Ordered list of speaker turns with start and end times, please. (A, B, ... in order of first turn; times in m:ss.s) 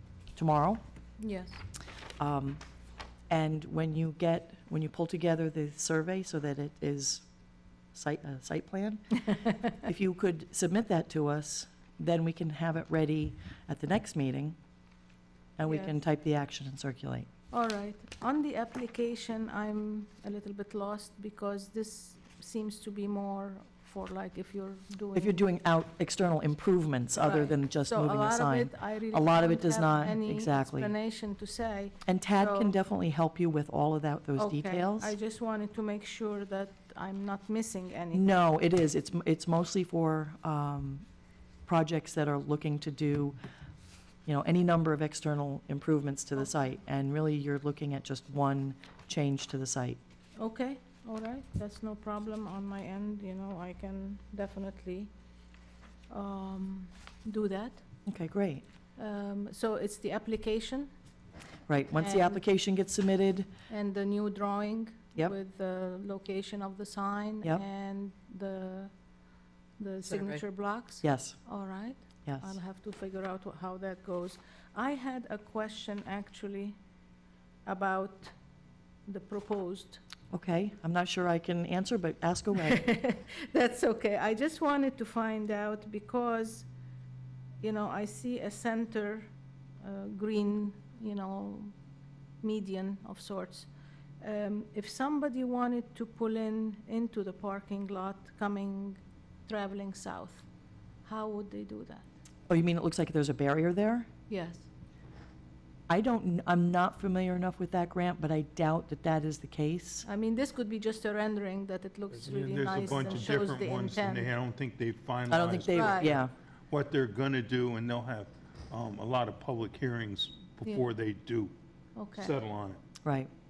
0:00.4-0:00.8 A
0:01.2-0:01.6 B
0:02.2-0:02.6 A
0:03.3-0:07.3 A
0:07.9-0:14.6 A
0:15.6-0:17.3 A
0:15.7-0:16.0 B
0:17.5-0:25.4 B
0:25.2-0:30.9 A
0:27.2-0:32.7 B
0:32.1-0:35.2 A
0:34.4-0:38.3 B
0:38.1-0:41.1 A
0:41.7-0:43.4 A
0:44.3-0:50.0 A
0:50.4-0:55.1 B
0:56.1-0:57.8 B
0:58.1-0:58.6 A
0:59.0-1:00.9 B
1:01.7-1:03.5 A
1:02.0-1:02.4 B
1:03.7-1:08.9 B
1:09.8-1:16.8 B
1:11.0-1:11.4 A
1:12.3-1:12.6 A
1:17.7-1:18.4 B
1:19.1-1:20.0 B
1:20.3-1:22.9 A
1:22.6-1:26.7 B
1:27.6-1:29.3 B
1:29.8-1:31.7 B
1:32.4-1:33.7 B
1:34.2-1:40.4 B
1:41.0-1:42.1 B
1:42.5-1:44.1 A
1:44.3-1:44.7 B
1:45.9-1:50.1 A
1:50.0-1:54.3 B
1:52.1-2:01.6 C
1:55.3-1:56.3 A
1:55.7-1:56.1 B
2:02.0-2:02.3 B
2:02.2-2:02.8 C
2:03.0-2:03.3 A